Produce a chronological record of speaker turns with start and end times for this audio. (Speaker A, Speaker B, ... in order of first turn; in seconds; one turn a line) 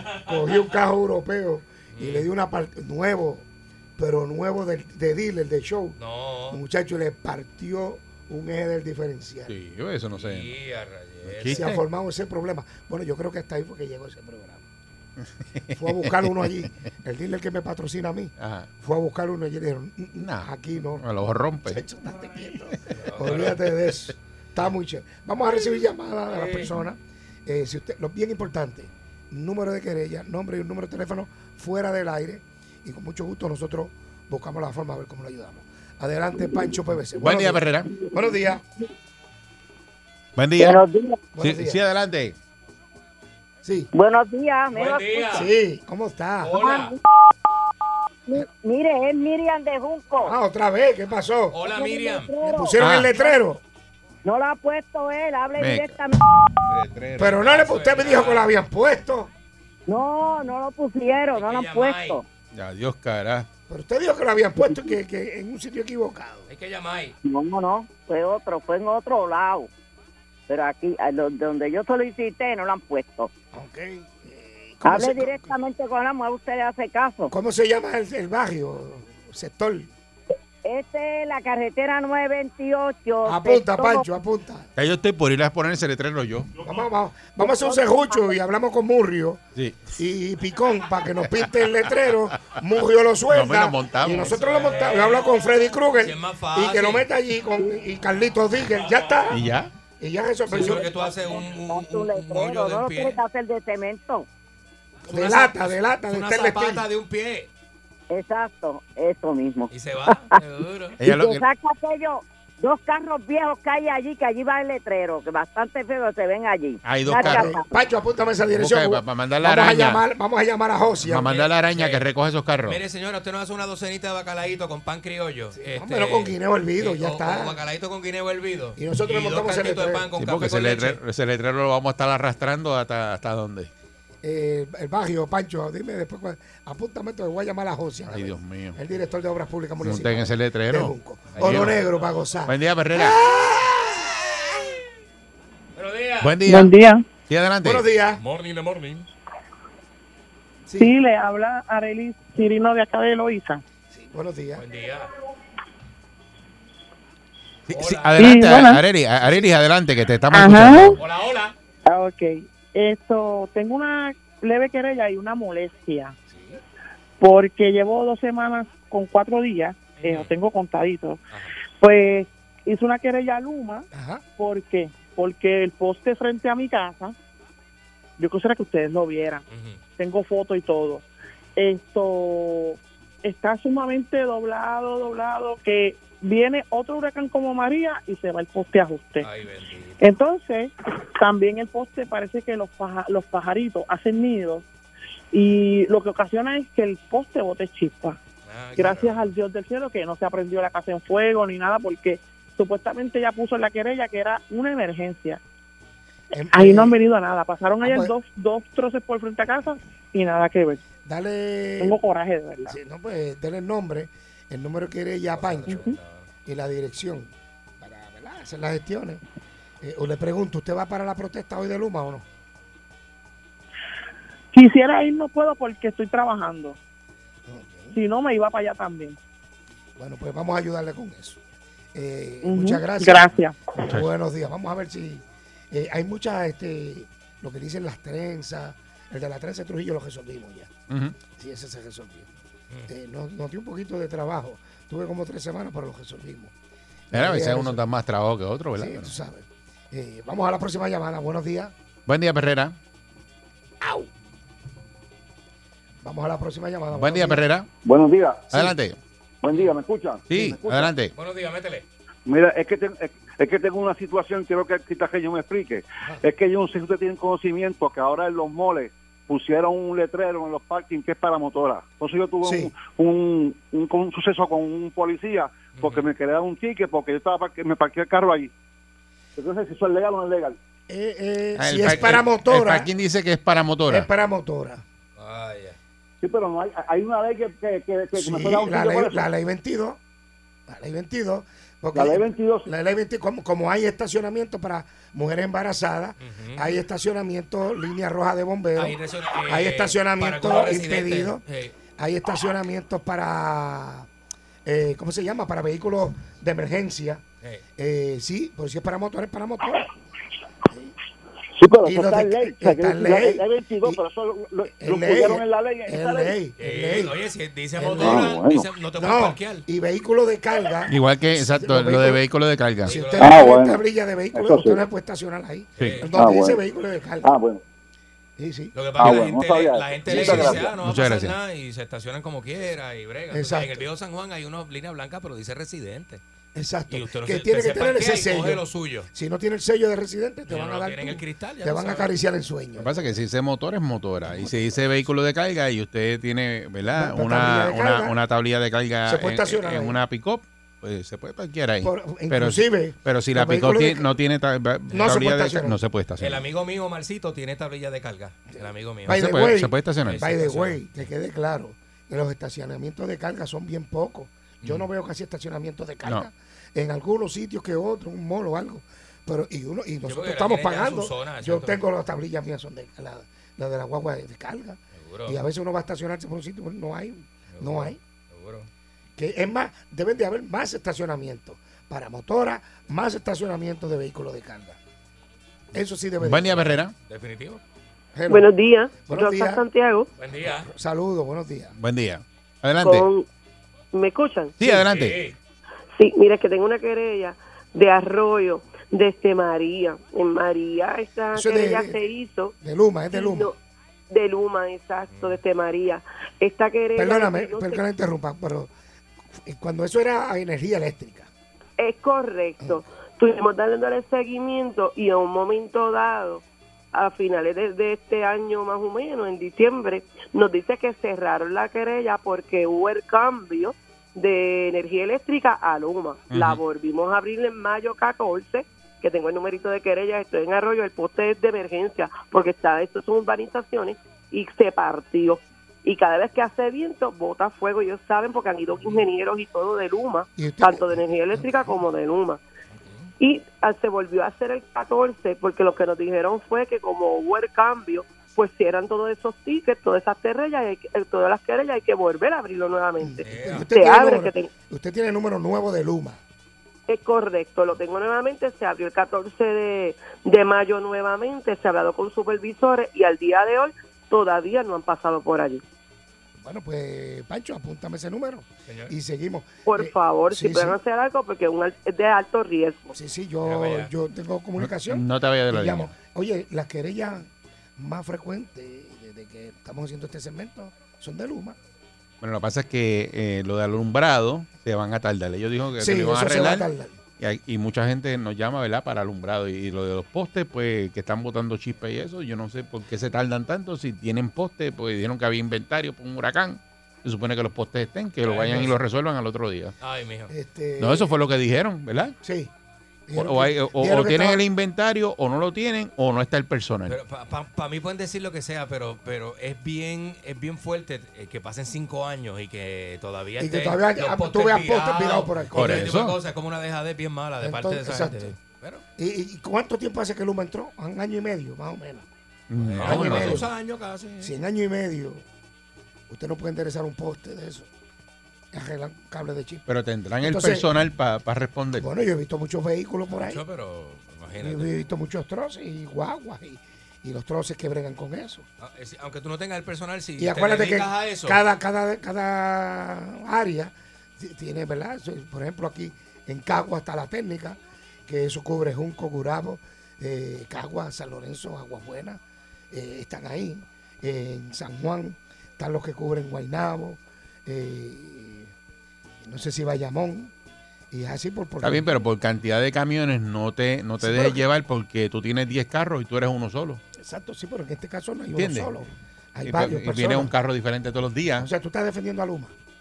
Speaker A: 0.2-3.5
Speaker B: 1.9-2.3
Speaker A: 4.0-6.0
Speaker B: 6.0-6.6
Speaker A: 6.5-9.5
Speaker C: 9.5-10.5
Speaker B: 10.1-11.7
Speaker C: 11.3-11.8
Speaker A: 11.5-14.7
Speaker C: 15.6-16.3
Speaker A: 15.7-21.1
Speaker C: 18.4-18.7
Speaker C: 20.2-21.8
Speaker A: 21.7-38.6
Speaker B: 22.9-23.6
Speaker B: 26.3-26.7
Speaker C: 37.2-37.9
Speaker C: 40.4-40.8
Speaker D: 40.6-41.3
Speaker A: 41.4-41.8
Speaker C: 41.4-42.4
Speaker A: 43.6-43.9
Speaker D: 43.9-45.5
Speaker B: 44.7-45.5
Speaker A: 45.3-46.6
Speaker B: 46.4-46.9
Speaker D: 46.5-47.0
Speaker D: 48.3-50.4
Speaker A: 50.2-51.6
Speaker B: 51.5-52.4
Speaker D: 51.6-53.0
Speaker A: 52.4-53.6
Speaker C: 52.8-53.1
Speaker D: 54.2-56.3
Speaker C: 55.6-56.0
Speaker C: 56.7-57.4
Speaker A: 57.2-59.3
Speaker B: 57.3-58.5
Speaker D: 59.9-62.2
Speaker B: 61.3-62.2
Speaker C: 62.5-63.5
Speaker A: 63.7-66.5
Speaker D: 64.6-64.9
Speaker B: 66.5-67.2
Speaker D: 67.2-69.7
Speaker D: 70.5-73.3
Speaker A: 73.5-75.5
Speaker D: 74.8-77.3
Speaker A: 77.3-79.9
Speaker D: 80.6-84.1
Speaker A: 83.3-84.7
Speaker C: 84.8-86.5
Speaker A: 86.6-89.4
Speaker D: 87.4-88.4
Speaker C: 89.6-89.9
Speaker A: 90.0-99.4
Speaker C: 93.3-94.4
Speaker B: 94.2-95.4
Speaker B: 96.0-97.1
Speaker C: 99.3-99.7
Speaker A: 100.0-101.0
Speaker B: 100.5-103.2
Speaker D: 101.2-104.3
Speaker A: 105.1-106.8
Speaker B: 105.1-107.5
Speaker D: 108.1-110.3
Speaker B: 109.7-111.0
Speaker C: 111.0-111.4
Speaker D: 111.0-117.7
Speaker C: 116.8-117.5
Speaker A: 117.1-121.4
Speaker C: 118.5-120.0
Speaker C: 121.0-122.8
Speaker B: 121.2-122.0
Speaker B: 122.7-131.0
Speaker A: 125.6-127.6
Speaker A: 128.8-130.1
Speaker C: 130.2-133.7
Speaker A: 134.2-144.7
Speaker C: 138.1-138.8
Speaker C: 139.8-141.8
Speaker B: 141.3-142.1
Speaker C: 142.5-143.2
Speaker B: 145.8-146.4
Speaker C: 146.2-146.7
Speaker E: 146.4-147.1
Speaker C: 147.3-147.8
Speaker A: 147.6-148.2
Speaker B: 148.2-149.1
Speaker A: 150.7-150.9
Speaker E: 150.8-153.6
Speaker A: 153.9-154.6
Speaker B: 154.6-155.1
Speaker C: 157.7-161.0
Speaker B: 157.7-158.5
Speaker E: 158.2-158.8
Speaker A: 159.2-159.5
Speaker E: 160.3-161.0
Speaker B: 161.0-161.6
Speaker E: 161.9-166.2
Speaker B: 166.3-166.6
Speaker E: 167.2-171.2
Speaker B: 170.0-170.3
Speaker E: 171.8-177.2
Speaker A: 173.9-174.2
Speaker E: 178.2-179.4
Speaker B: 179.5-179.8
Speaker E: 180.0-181.1
Speaker E: 181.6-189.3
Speaker B: 189.2-190.0
Speaker E: 190.0-194.7
Speaker E: 195.3-198.2
Speaker B: 198.5-199.3
Speaker E: 198.8-205.4
Speaker A: 206.3-207.0
Speaker E: 206.5-210.8
Speaker A: 207.8-208.1
Speaker A: 211.0-212.0
Speaker E: 211.8-212.8
Speaker A: 212.7-215.8
Speaker B: 215.3-216.3
Speaker E: 215.7-216.0
Speaker A: 216.5-219.2
Speaker A: 219.8-222.2
Speaker E: 224.5-226.8
Speaker A: 227.5-228.0
Speaker E: 227.9-229.2
Speaker A: 230.0-231.4
Speaker A: 231.9-240.7
Speaker E: 232.4-233.7
Speaker C: 240.9-241.2
Speaker A: 241.3-242.3
Speaker A: 242.9-246.5
Speaker A: 247.1-247.8
Speaker C: 247.1-249.1
Speaker A: 248.8-251.7
Speaker C: 252.1-252.8
Speaker A: 253.8-254.1
Speaker A: 256.0-257.4
Speaker C: 256.9-257.7
Speaker F: 257.8-258.7
Speaker C: 258.5-259.0
Speaker F: 259.4-260.9
Speaker C: 260.3-261.1
Speaker B: 261.1-261.9
Speaker F: 262.3-278.5
Speaker A: 272.4-272.7
Speaker B: 275.8-276.1
Speaker F: 279.4-280.6
Speaker A: 280.9-282.9
Speaker C: 281.6-284.1
Speaker B: 281.9-282.2
Speaker A: 283.9-284.8
Speaker B: 285.2-285.8
Speaker F: 286.2-289.2
Speaker A: 288.1-290.0
Speaker A: 290.7-301.4
Speaker F: 291.9-292.7
Speaker B: 296.2-296.8
Speaker B: 298.8-301.8
Speaker A: 302.0-304.1
Speaker A: 304.6-307.2
Speaker A: 307.8-309.9
Speaker F: 311.6-316.4
Speaker A: 311.8-314.0
Speaker A: 314.8-317.2
Speaker B: 316.6-319.6
Speaker A: 317.8-318.4
Speaker F: 318.0-318.7
Speaker A: 318.9-322.2
Speaker C: 320.9-323.1
Speaker B: 322.9-323.6
Speaker A: 322.9-327.4
Speaker F: 323.2-324.8
Speaker C: 325.8-326.0
Speaker B: 325.8-326.1
Speaker F: 326.1-326.6
Speaker F: 327.2-327.6
Speaker A: 328.4-329.2
Speaker B: 328.7-336.2
Speaker F: 329.0-330.7
Speaker A: 330.1-330.7
Speaker C: 330.7-331.4
Speaker A: 333.3-333.9
Speaker A: 336.6-343.1
Speaker B: 336.9-339.1
Speaker B: 340.5-342.1
Speaker C: 342.8-356.4
Speaker A: 344.3-344.6
Speaker A: 346.9-348.2
Speaker A: 349.1-350.0
Speaker A: 351.8-354.1
Speaker A: 354.9-355.8
Speaker B: 356.2-359.2
Speaker C: 359.1-360.2
Speaker A: 359.1-378.0
Speaker B: 360.1-360.8
Speaker B: 364.6-364.9
Speaker B: 370.1-371.8
Speaker B: 375.0-375.4
Speaker B: 377.5-378.7
Speaker A: 379.2-384.8
Speaker A: 385.7-386.7
Speaker C: 386.2-386.9
Speaker B: 387.1-387.6
Speaker A: 388.1-388.5
Speaker G: 388.3-390.1
Speaker A: 389.1-389.6
Speaker B: 390.2-390.7
Speaker A: 390.5-391.8
Speaker C: 391.8-393.1
Speaker G: 392.8-393.3
Speaker G: 393.9-394.6
Speaker C: 394.6-395.2
Speaker B: 394.6-395.4
Speaker G: 396.0-402.6
Speaker A: 401.3-402.1
Speaker A: 402.6-403.5
Speaker G: 403.1-403.6
Speaker G: 404.1-407.8
Speaker B: 405.1-405.4
Speaker A: 407.0-408.7
Speaker A: 409.3-411.3
Speaker G: 411.8-442.4
Speaker C: 426.3-426.6
Speaker A: 440.4-441.8
Speaker G: 443.2-454.5
Speaker A: 453.0-456.2
Speaker B: 453.2-453.7
Speaker G: 456.9-465.6
Speaker A: 466.4-470.8
Speaker B: 468.7-468.9
Speaker G: 469.7-472.8
Speaker A: 472.9-481.6
Speaker B: 473.4-473.9
Speaker C: 474.6-475.9
Speaker C: 482.2-486.7
Speaker A: 485.8-487.0
Speaker C: 487.2-499.7
Speaker B: 498.2-498.8
Speaker B: 499.8-500.3
Speaker A: 500.3-501.2
Speaker C: 500.8-502.1
Speaker A: 502.2-502.5
Speaker A: 503.1-504.4
Speaker C: 503.1-507.0
Speaker B: 506.9-518.8
Speaker A: 513.4-516.0
Speaker C: 515.5-516.2
Speaker A: 517.4-518.4
Speaker A: 519.0-522.1
Speaker C: 522.5-523.5
Speaker B: 522.6-524.3
Speaker A: 522.8-523.5
Speaker A: 524.2-525.2
Speaker A: 526.1-527.7
Speaker A: 528.5-529.7
Speaker C: 529.7-531.9
Speaker A: 530.2-530.7
Speaker A: 531.8-533.4
Speaker B: 533.1-534.7
Speaker A: 534.4-538.5
Speaker B: 538.6-541.4
Speaker A: 540.2-552.2
Speaker A: 552.7-558.5
Speaker A: 559.2-560.3
Speaker A: 560.9-562.0
Speaker C: 561.6-566.8
Speaker A: 564.0-564.4
Speaker A: 567.0-570.3
Speaker C: 568.4-568.7
Speaker C: 569.4-571.5
Speaker A: 571.4-572.5